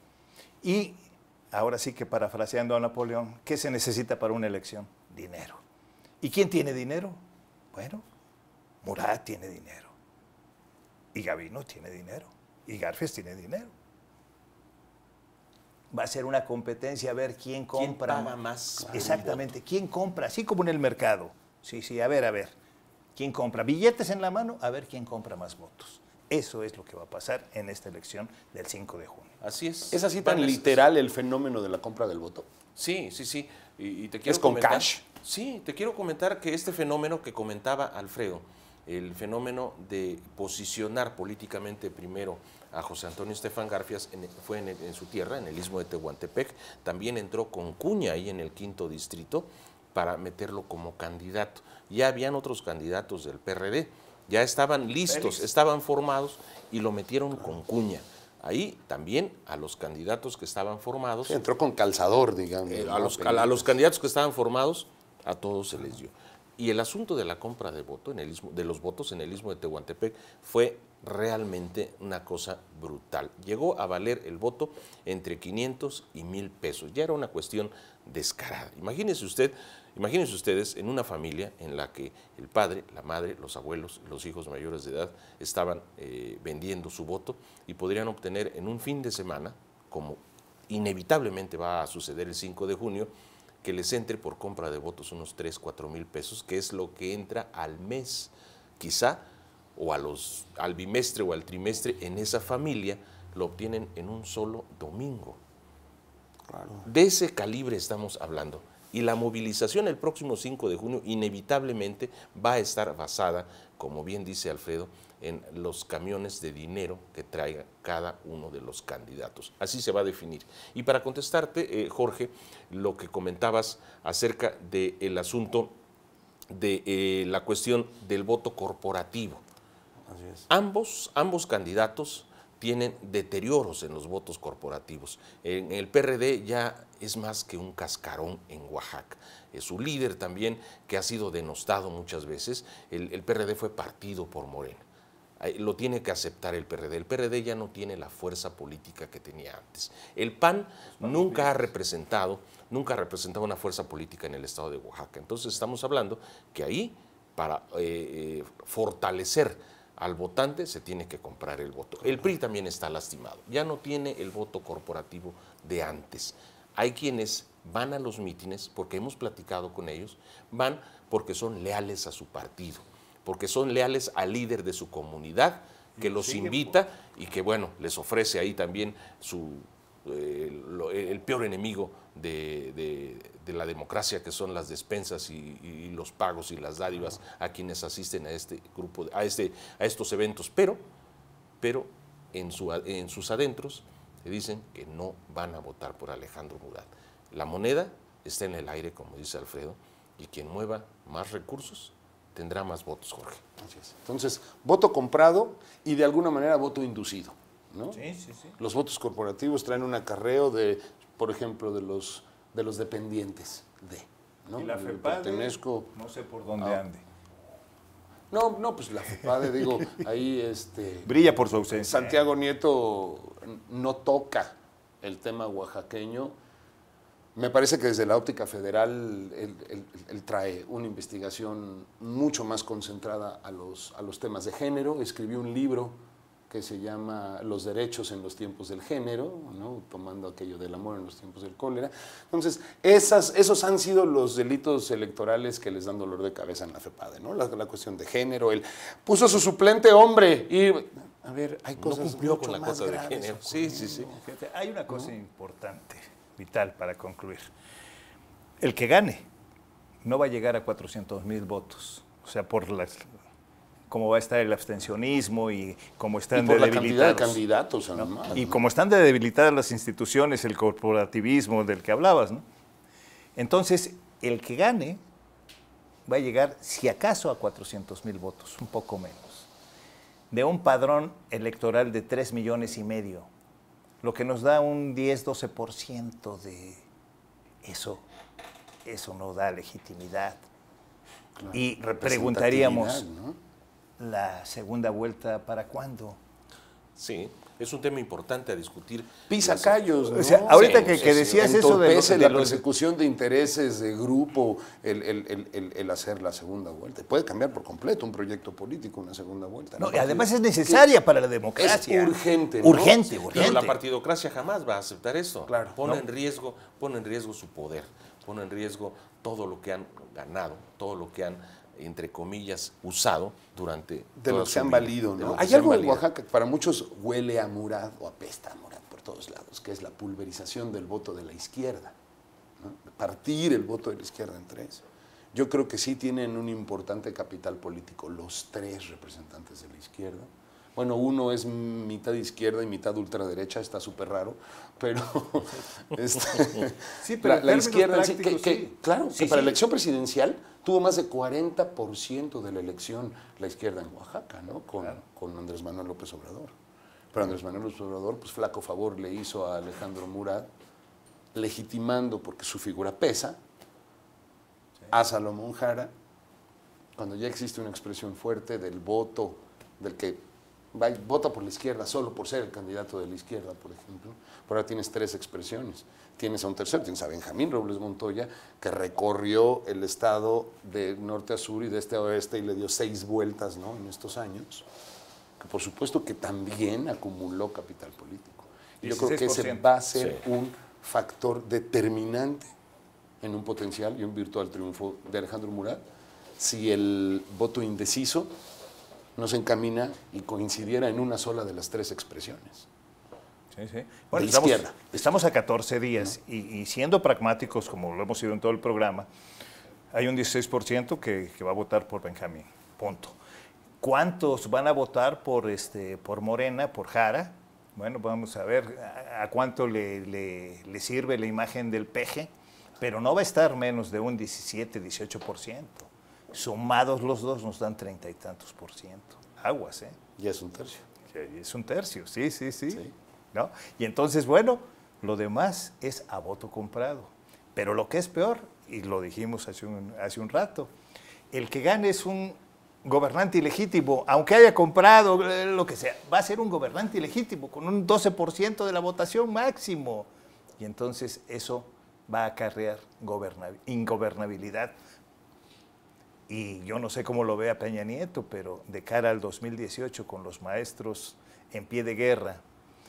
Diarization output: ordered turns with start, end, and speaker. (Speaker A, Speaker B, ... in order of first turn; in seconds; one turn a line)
Speaker A: 0.6-5.6
Speaker A: 6.2-7.2
Speaker A: 7.7-8.0
Speaker A: 8.8-9.9
Speaker A: 11.1-13.7
Speaker A: 15.9-18.4
Speaker B: 17.7-19.5
Speaker A: 18.9-22.6
Speaker A: 23.1-29.3
Speaker B: 29.4-30.8
Speaker C: 29.9-32.5
Speaker B: 32.8-61.4
Speaker C: 34.2-35.0
Speaker C: 61.2-63.7
Speaker B: 62.7-93.1
Speaker B: 93.6-99.2
Speaker B: 99.8-105.4
Speaker C: 106.5-106.9
Speaker B: 106.8-125.8
Speaker B: 126.5-129.4
Speaker C: 130.1-130.5
Speaker B: 130.5-144.8
Speaker B: 145.4-190.8
Speaker A: 151.0-151.7
Speaker A: 176.0-176.8
Speaker B: 191.6-203.4
Speaker C: 203.6-208.0
Speaker A: 207.9-208.5
Speaker C: 208.6-215.9
Speaker A: 214.6-217.0
Speaker C: 218.3-221.2
Speaker A: 221.0-222.2
Speaker C: 221.7-226.3
Speaker C: 227.3-236.0
Speaker C: 236.5-254.2
Speaker B: 251.8-254.1
Speaker A: 254.1-257.4
Speaker A: 258.6-259.2
Speaker A: 260.0-263.1
Speaker A: 263.9-267.4
Speaker C: 266.3-268.6
Speaker A: 268.0-272.4
Speaker A: 273.4-275.0
Speaker A: 276.1-279.5
Speaker A: 280.3-283.3
Speaker A: 284.0-286.8
Speaker A: 287.6-288.0
Speaker A: 288.8-290.4
Speaker C: 291.4-293.4
Speaker A: 291.5-293.0
Speaker A: 294.0-296.2
Speaker B: 297.0-301.5
Speaker C: 299.3-310.9
Speaker A: 300.1-302.6
Speaker A: 309.8-313.8
Speaker C: 311.6-313.6
Speaker B: 313.3-326.0
Speaker C: 315.5-315.8
Speaker C: 324.2-331.9
Speaker C: 332.6-356.5
Speaker A: 347.0-349.6
Speaker C: 357.1-360.5
Speaker C: 361.3-363.4
Speaker C: 364.9-365.9
Speaker C: 367.0-384.7
Speaker C: 385.4-392.5
Speaker A: 388.8-389.6
Speaker B: 389.9-390.2
Speaker C: 393.2-395.8
Speaker C: 396.4-398.3
Speaker C: 399.1-402.7
Speaker A: 403.5-409.1
Speaker C: 404.1-405.1
Speaker A: 409.9-413.1
Speaker A: 413.8-430.0
Speaker C: 430.2-430.8
Speaker A: 431.1-440.7
Speaker A: 441.3-454.8
Speaker A: 456.3-462.4